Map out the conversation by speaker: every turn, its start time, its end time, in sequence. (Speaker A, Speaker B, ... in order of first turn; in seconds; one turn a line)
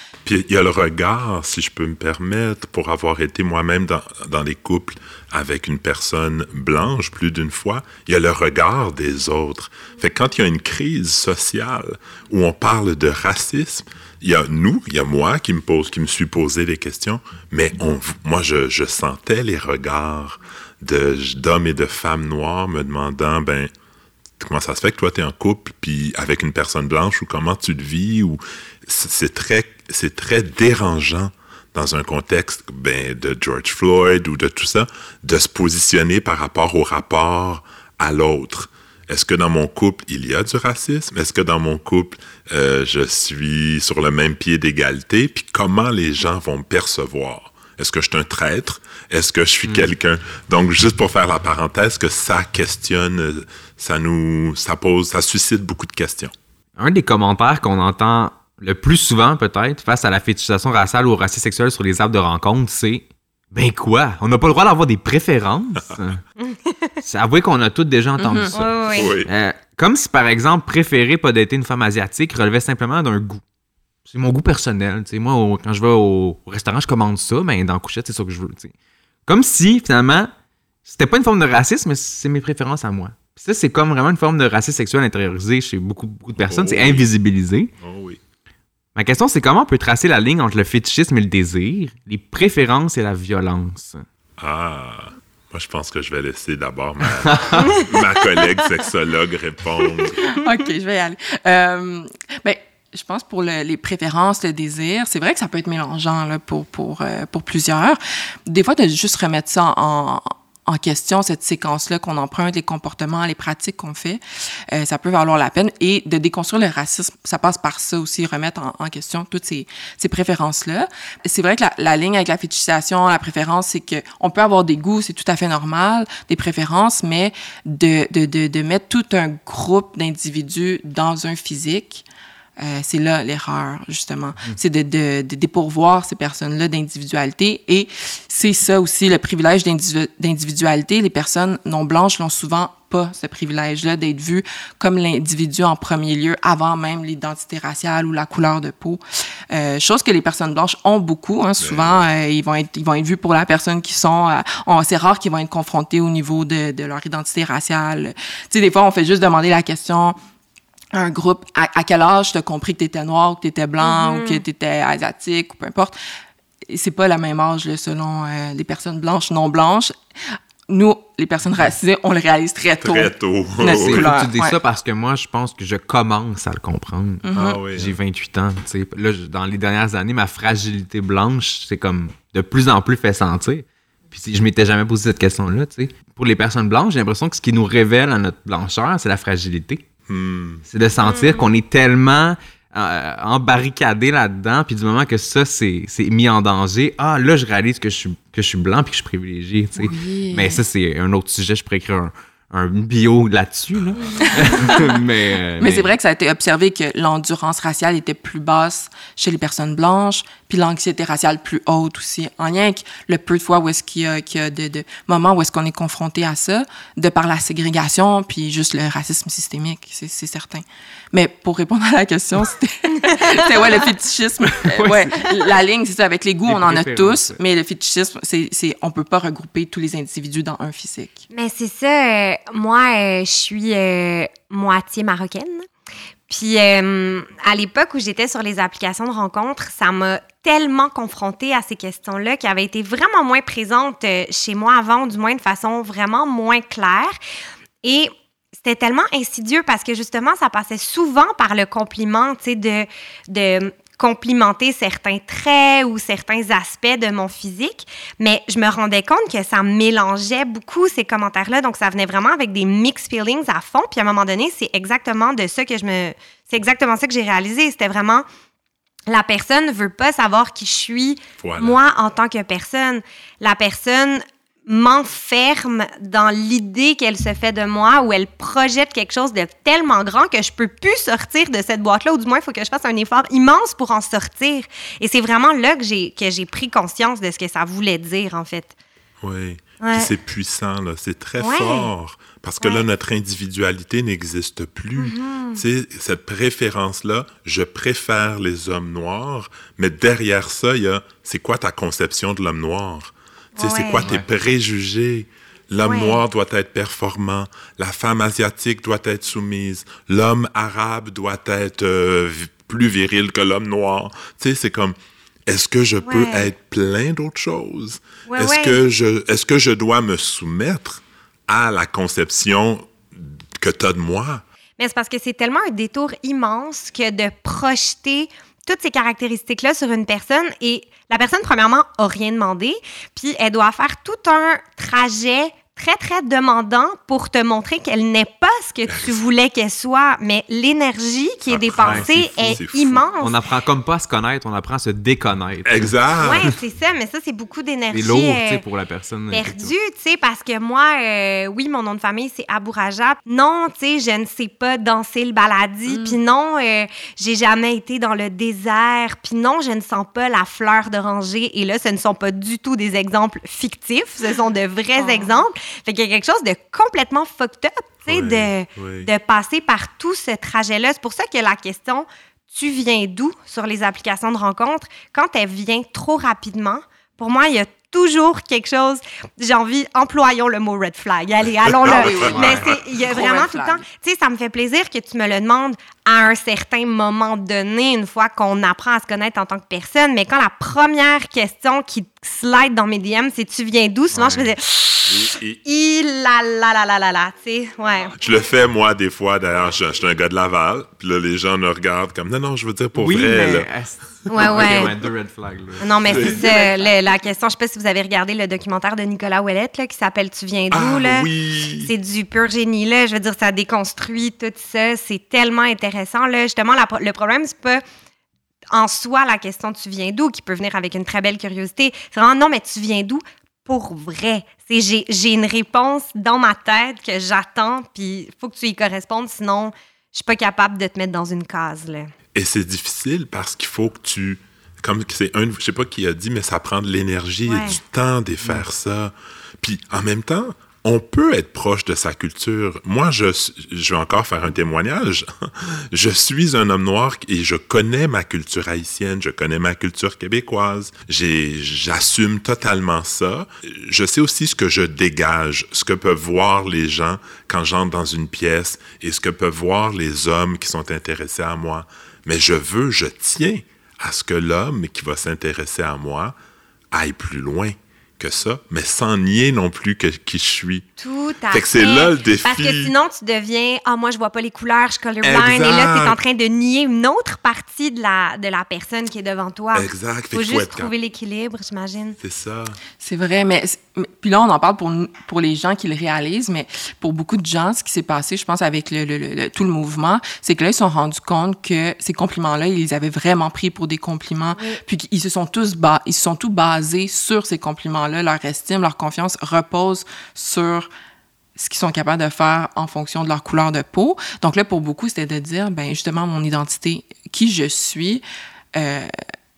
Speaker A: 0.2-23.7
Speaker A: 24.4-56.3
Speaker B: 56.8-66.2
Speaker C: 66.4-66.7
Speaker B: 67.0-73.4
Speaker D: 68.2-68.5
Speaker C: 68.5-69.2
Speaker A: 68.9-69.3
Speaker B: 74.1-78.7
Speaker B: 79.2-80.3
Speaker B: 80.8-87.7
Speaker A: 86.4-87.1
Speaker A: 87.8-88.2
Speaker B: 89.0-94.0
Speaker A: 94.4-100.2
Speaker B: 97.2-97.7
Speaker D: 100.2-132.0
Speaker D: 132.6-160.2
Speaker A: 151.6-152.1
Speaker D: 160.9-165.9
Speaker C: 163.8-164.4
Speaker D: 166.7-169.9
Speaker D: 170.7-174.6
Speaker A: 172.8-174.1
Speaker B: 173.6-189.8
Speaker D: 177.2-177.6
Speaker A: 177.3-177.9
Speaker A: 190.1-190.6
Speaker B: 190.7-205.9
Speaker C: 191.0-191.4
Speaker D: 199.8-200.6
Speaker D: 204.2-205.0
Speaker D: 205.6-231.2
Speaker C: 223.0-223.7
Speaker B: 224.5-225.5
Speaker B: 226.4-227.4
Speaker C: 231.3-235.7
Speaker C: 236.3-247.2
Speaker C: 247.8-268.2
Speaker C: 269.1-288.7
Speaker A: 271.4-271.8
Speaker A: 289.2-314.9
Speaker C: 289.8-290.1
Speaker C: 291.4-291.9
Speaker C: 295.0-295.6
Speaker C: 303.6-304.1
Speaker C: 305.8-306.2
Speaker A: 315.5-324.4
Speaker C: 316.0-316.5
Speaker C: 318.3-318.8
Speaker C: 324.8-343.4
Speaker A: 338.9-339.1
Speaker A: 341.5-343.0
Speaker B: 341.7-342.6
Speaker B: 343.2-346.5
Speaker A: 345.6-346.4
Speaker C: 346.2-348.6
Speaker B: 347.9-349.7
Speaker C: 349.3-398.1
Speaker D: 355.9-356.2
Speaker D: 365.0-365.3
Speaker A: 368.1-369.1
Speaker D: 381.8-383.8
Speaker B: 382.3-382.7
Speaker A: 394.1-394.5
Speaker A: 395.1-395.6
Speaker A: 398.2-403.7
Speaker B: 402.9-406.3
Speaker C: 404.3-404.9
Speaker C: 405.8-417.8
Speaker A: 406.0-406.5
Speaker A: 410.7-411.9
Speaker C: 418.7-432.1
Speaker A: 432.3-466.3
Speaker C: 437.4-437.8
Speaker A: 466.9-470.8
Speaker C: 471.0-482.2
Speaker A: 471.5-472.9
Speaker A: 475.2-476.2
Speaker A: 479.7-480.9
Speaker A: 482.2-482.8
Speaker D: 483.0-500.9
Speaker D: 501.6-508.2
Speaker D: 508.7-509.1